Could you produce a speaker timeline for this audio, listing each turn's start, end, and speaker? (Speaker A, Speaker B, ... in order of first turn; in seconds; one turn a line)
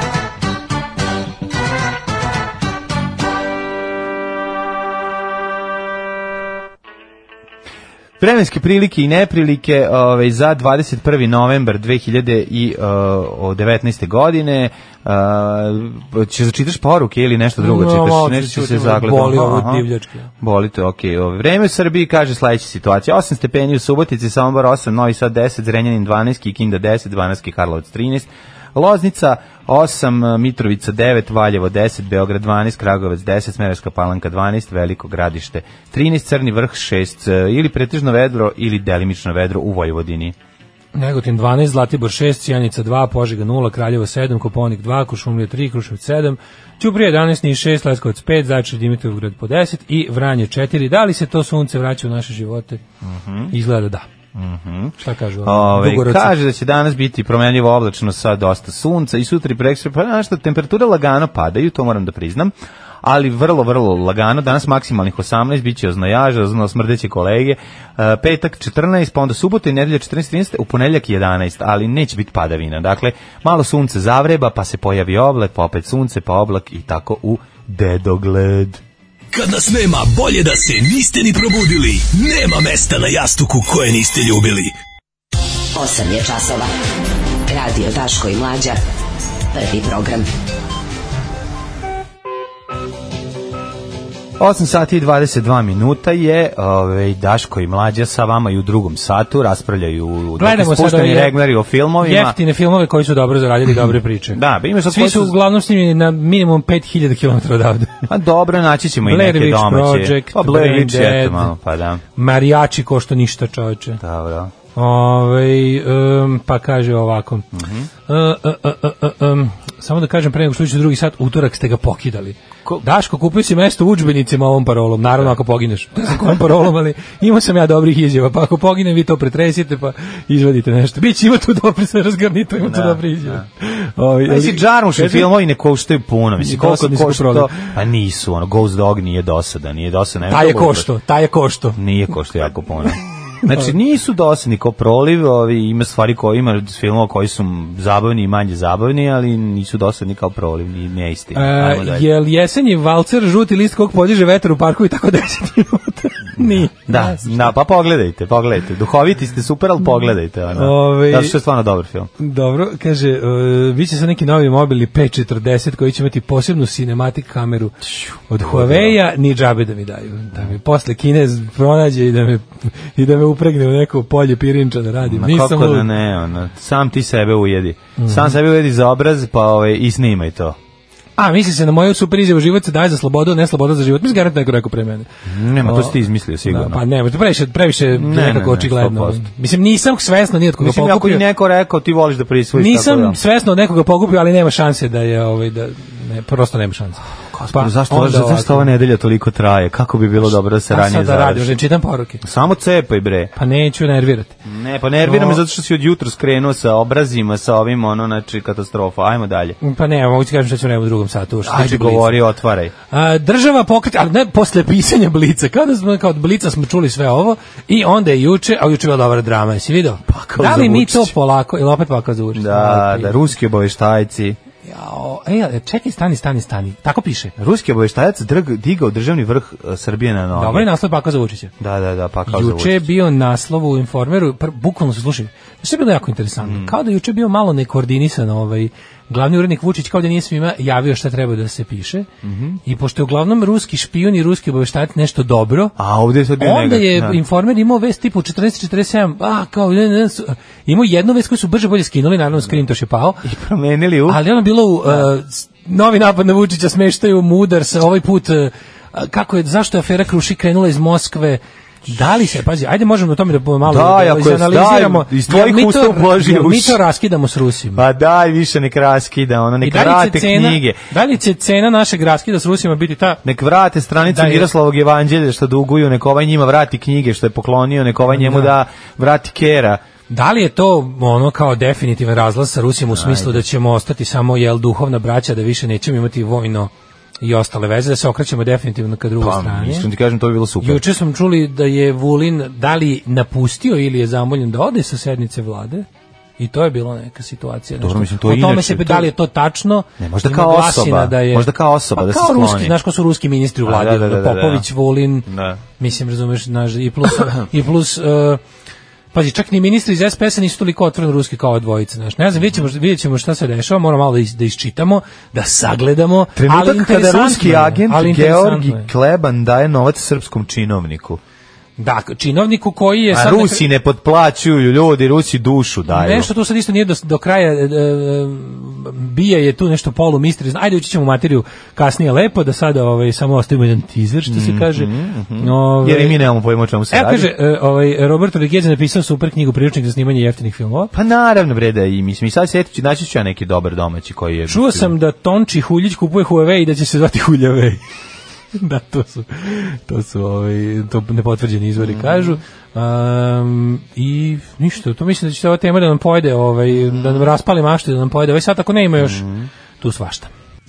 Speaker A: 8.2-19.9
Speaker B: 17.6-20.3
Speaker A: 20.4-40.3
Speaker B: 40.9-52.8
Speaker A: 53.0-53.5
Speaker B: 53.5-54.0
Speaker A: 54.3-78.8
Speaker B: 55.0-56.3
Speaker C: 79.3-84.7
Speaker D: 85.7-86.7
Speaker D: 87.5-88.8
Speaker D: 89.5-90.3
Speaker A: 94.4-102.4
Speaker B: 100.4-101.4
Speaker B: 102.0-108.1
Speaker A: 104.3-105.3
Speaker A: 108.1-112.0
Speaker B: 109.0-111.5
Speaker B: 112.2-114.0
Speaker A: 114.0-114.5
Speaker B: 114.7-117.5
Speaker A: 117.5-117.9
Speaker B: 118.1-135.3
Speaker A: 132.6-133.4
Speaker A: 134.3-140.9
Speaker B: 136.4-137.7
Speaker B: 140.3-141.8
Speaker A: 141.8-152.1
Speaker B: 151.3-157.5
Speaker A: 156.4-162.1
Speaker B: 160.5-161.4
Speaker B: 162.2-175.9
Speaker A: 167.8-169.0
Speaker A: 175.0-180.6
Speaker B: 178.0-178.3
Speaker B: 181.2-185.1
Speaker A: 185.2-186.8
Speaker B: 185.6-191.2
Speaker A: 187.9-189.2
Speaker A: 190.6-193.2
Speaker B: 192.5-198.7
Speaker A: 197.3-201.5
Speaker B: 200.7-202.2
Speaker A: 202.2-203.3
Speaker B: 203.3-204.3
Speaker A: 204.4-209.6
Speaker B: 205.0-205.4
Speaker B: 209.6-212.2
Speaker A: 211.4-212.7
Speaker B: 212.9-223.2
Speaker A: 220.1-221.1
Speaker A: 222.3-224.4
Speaker B: 224.6-227.3
Speaker A: 227.4-230.7
Speaker B: 230.3-231.5
Speaker A: 231.6-232.9
Speaker B: 232.3-242.1
Speaker A: 236.4-236.7
Speaker A: 242.2-242.6
Speaker B: 242.6-245.7
Speaker A: 245.8-247.2
Speaker B: 246.4-253.2
Speaker A: 253.2-254.2
Speaker B: 254.1-267.8
Speaker A: 263.6-266.8
Speaker A: 267.7-270.8
Speaker B: 269.6-273.2
Speaker A: 273.2-279.8
Speaker B: 274.1-274.5
Speaker B: 278.1-278.5
Speaker B: 280.1-289.9
Speaker A: 282.9-283.4
Speaker A: 289.2-290.8
Speaker B: 290.6-295.9
Speaker B: 296.4-305.3
Speaker A: 297.8-299.1
Speaker A: 300.0-302.8
Speaker A: 303.6-304.7
Speaker A: 305.2-305.6
Speaker B: 305.8-308.4
Speaker B: 309.1-318.9
Speaker A: 316.3-321.2
Speaker B: 321.8-323.6
Speaker A: 323.1-326.3
Speaker B: 325.9-336.2
Speaker A: 334.3-337.3
Speaker B: 336.9-340.9
Speaker A: 340.9-344.9
Speaker B: 344.5-347.8
Speaker B: 348.5-359.2
Speaker A: 351.8-352.4
Speaker A: 359.0-359.5
Speaker B: 359.8-360.3